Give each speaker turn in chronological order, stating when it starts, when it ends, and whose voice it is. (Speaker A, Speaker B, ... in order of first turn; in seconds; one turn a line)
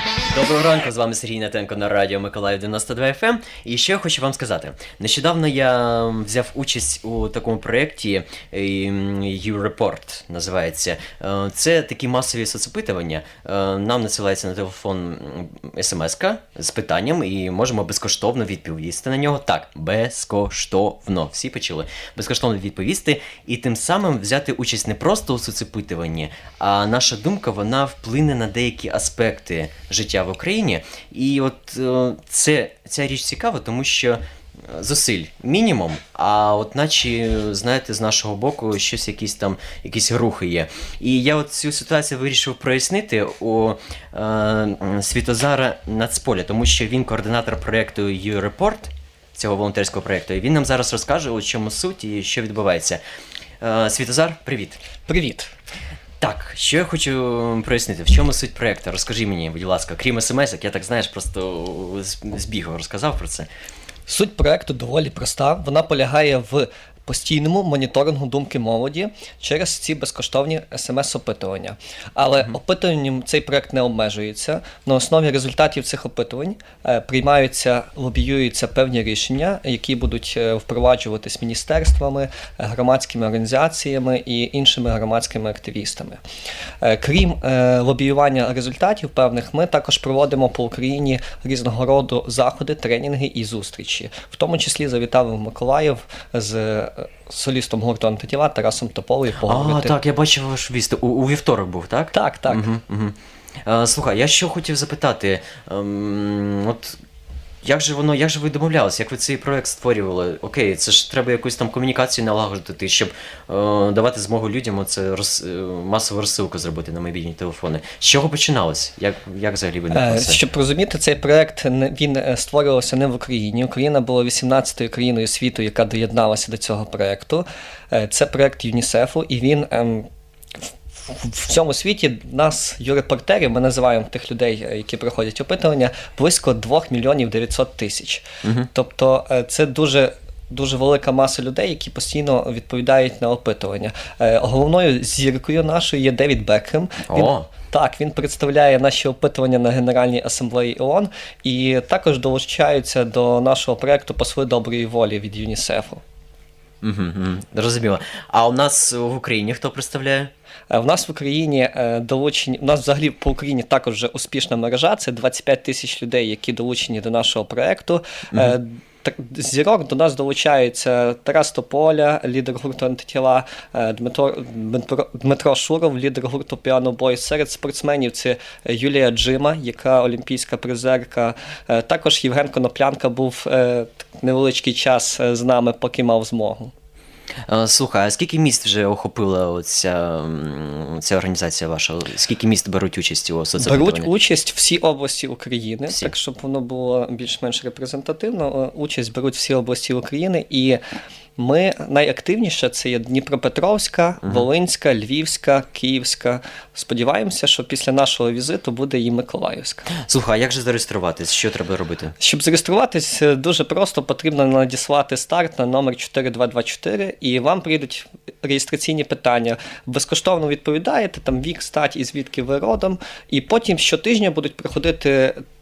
Speaker A: 0.3-53.0
Speaker A: 53.6-54.8
Speaker B: 55.1-55.5
Speaker A: 56.2-63.5
Speaker B: 64.1-86.2
Speaker B: 86.8-100.0
Speaker A: 99.4-103.1
Speaker B: 102.1-102.7
Speaker A: 103.7-107.0
Speaker A: 107.6-120.4
Speaker B: 119.9-130.1
Speaker B: 131.0-156.0
Speaker A: 147.1-147.4
Speaker A: 156.8-160.3
Speaker B: 160.7-186.7
Speaker A: 168.3-168.6
Speaker A: 187.5-194.1
Speaker B: 193.6-200.8
Speaker B: 201.4-209.9
Speaker A: 210.0-212.2
Speaker B: 212.2-225.4